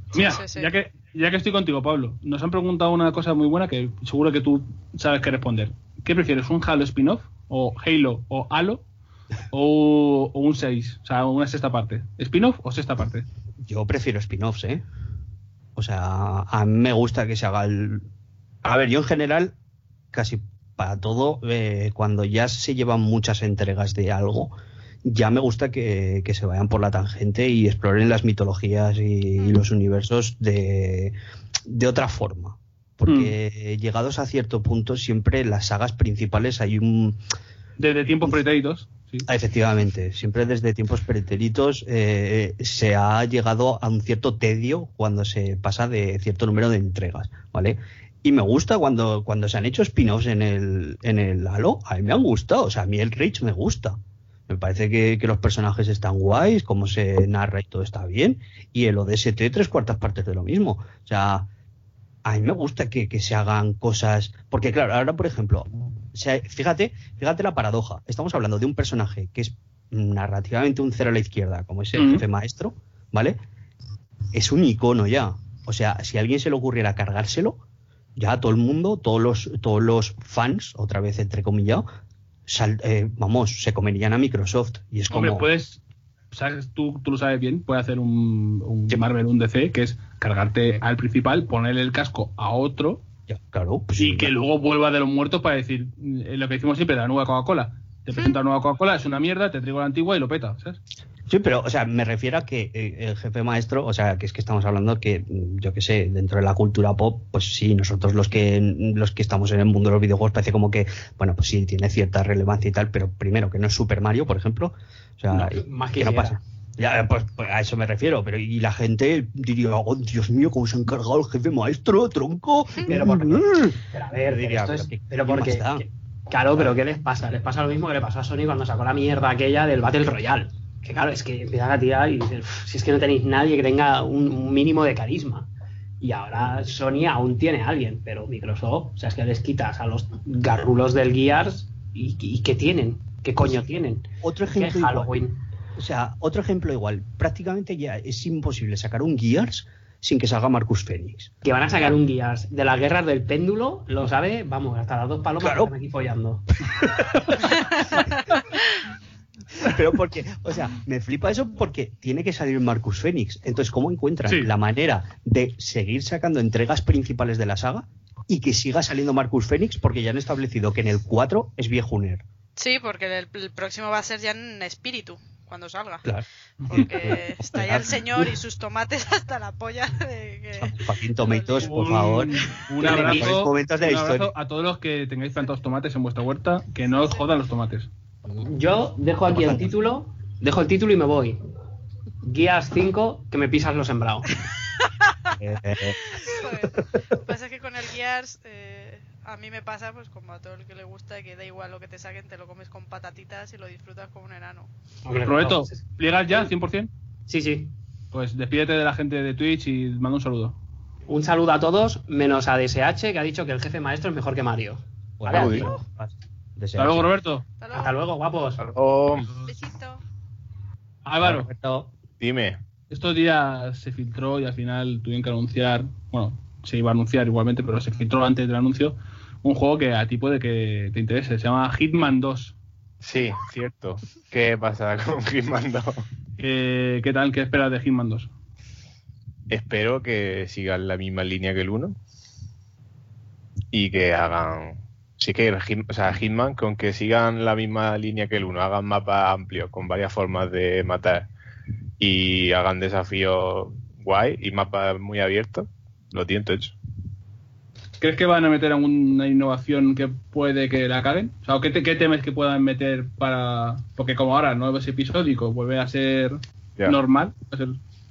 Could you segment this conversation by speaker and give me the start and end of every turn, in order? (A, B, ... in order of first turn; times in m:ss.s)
0:00.1-0:08.8 A
0:00.2-0:00.7 B
0:09.5-0:13.3 A
0:13.6-0:14.8 C
0:15.8-0:18.1 C
0:18.6-0:19.5 C
0:20.1-0:31.1 C
0:31.6-0:37.2 C
0:33.1-0:33.3 A
0:37.8-0:39.3 A
0:39.3-0:54.0 C
0:54.5-1:01.5 C
1:02.2-1:13.4 C
1:11.9-1:12.2 A
1:14.3-1:17.6 C
1:18.2-1:21.8 C
1:22.5-1:25.5 C
1:25.1-1:25.8 A
1:26.3-1:33.0 A
1:33.3-1:34.3 C
1:34.0-1:40.8 A
1:41.3-2:05.9 C
1:55.3-1:56.4 D
2:02.8-2:15.5 D
2:16.0-2:25.4 D
2:24.2-2:25.1 C
2:25.8-2:31.3 C
2:31.4-2:36.5 D
2:35.4-2:35.7 C
2:36.7-2:38.3 C
2:37.7-2:38.4 D
2:39.6-2:52.2 C
2:44.2-2:44.5 A
2:52.6-2:56.1 B
2:56.0-2:58.4 C
2:56.6-2:56.9 A
2:56.6-3:01.9 B
3:00.6-3:04.3 C
3:01.6-3:07.9 A
3:02.8-3:03.3 D
3:08.4-3:11.4 D
3:09.3-3:09.7 C
3:12.2-3:14.3 D
3:15.4-3:16.2 C
3:16.1-3:24.7 B
3:25.0-3:25.8 D
3:25.2-3:26.9 A
3:27.3-3:27.7 D
3:28.1-3:30.6 A
3:31.1-3:35.8 D
3:35.2-3:37.1 C
3:35.3-3:35.7 E
3:36.8-3:37.4 A
3:37.6-3:38.0 B
3:37.7-3:38.6 D
3:38.6-3:39.4 E
3:39.4-3:40.0 B
3:41.0-3:41.5 A
3:41.2-3:41.9 C
3:42.2-3:42.6 E
3:42.9-3:52.5 A
3:53.0-3:56.0 E
3:56.4-3:58.3 A
3:59.5-4:02.0 E
4:03.7-4:11.3 E
4:12.0-4:16.7 E
4:18.0-4:27.8 A